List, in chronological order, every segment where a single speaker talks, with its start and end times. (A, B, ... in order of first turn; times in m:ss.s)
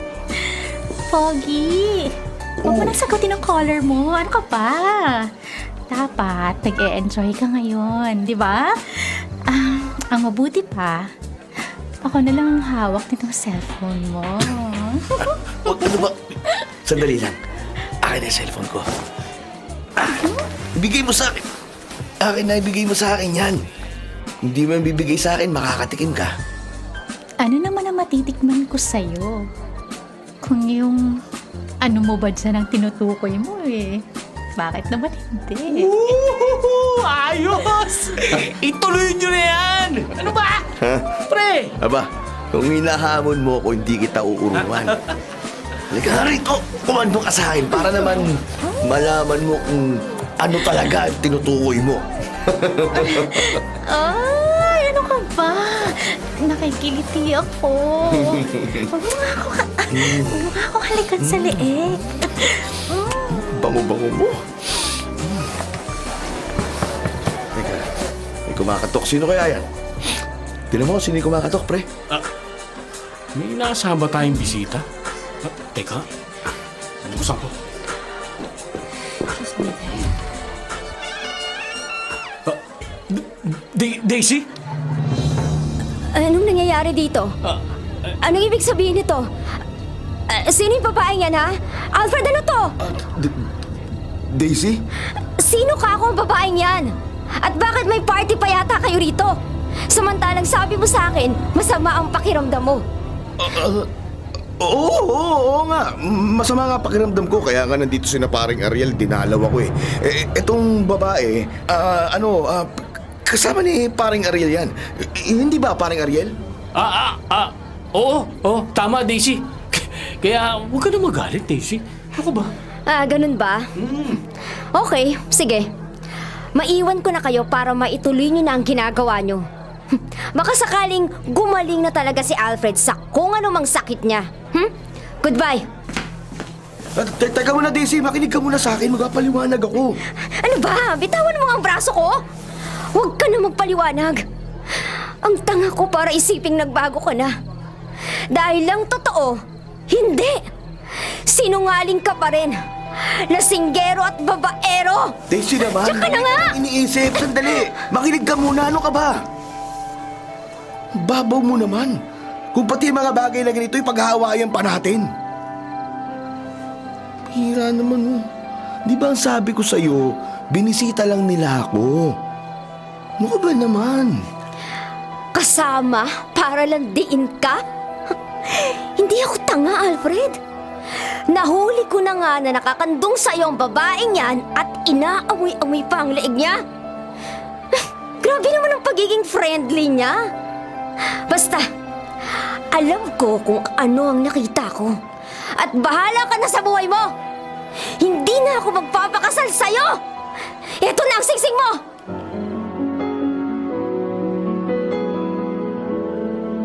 0:00.4-0:05.3 A
0:02.6-0:03.0 B
0:05.9-0:11.1 A
0:12.0-0:15.9 A
0:15.6-0:16.2 B
0:16.8-0:17.4 B
0:18.0-0:18.9 B
0:20.8-0:21.4 B
0:22.2-0:23.7 B
0:24.4-0:26.3 B
0:27.4-0:29.5 A
0:30.4-0:31.2 A
0:31.8-0:34.0 A
0:34.6-0:36.0 A
0:35.7-0:41.8 C
0:40.8-0:41.2 B
0:41.8-0:45.0 B
0:44.8-0:45.1 C
0:45.9-0:53.6 B
0:52.9-1:03.4 A
0:58.2-0:58.8 B
0:59.9-1:00.5 B
1:01.2-1:01.6 B
1:03.3-1:04.4 B
1:07.5-1:07.9 B
1:08.5-1:09.6 B
1:10.7-1:11.9 B
1:13.4-1:14.8 C
1:15.4-1:16.1 C
1:17.0-1:17.5 C
1:19.4-1:20.1 C
1:22.5-1:24.5 C
1:26.1-1:27.4 D
1:28.1-1:29.3 D
1:30.3-1:32.8 D
1:32.8-1:33.4 B
1:34.3-1:34.8 B
1:35.2-1:42.8 D
1:43.4-1:43.9 B
1:44.6-1:56.3 B
1:56.8-2:02.5 C
2:02.9-2:03.6 D
2:03.8-2:04.2 C
2:04.3-2:05.7 D
2:06.6-2:15.7 D
2:17.0-2:20.0 B
2:20.1-2:22.2 D
2:22.9-2:27.4 D
2:28.3-2:29.4 D
2:29.9-2:35.2 D
2:35.3-2:39.2 B
2:35.7-2:36.5 D
2:41.0-2:42.0 B
2:42.5-2:45.1 B
2:47.3-2:48.3 B
2:48.9-2:52.2 B
2:53.2-2:54.2 B
2:55.3-2:57.6 D
2:58.4-3:00.4 D
3:00.9-3:06.6 D
3:07.7-3:10.2 D
3:11.0-3:11.7 D
3:12.2-3:15.0 D
3:15.5-3:17.1 D
3:17.8-3:20.0 D
3:20.8-3:21.8 D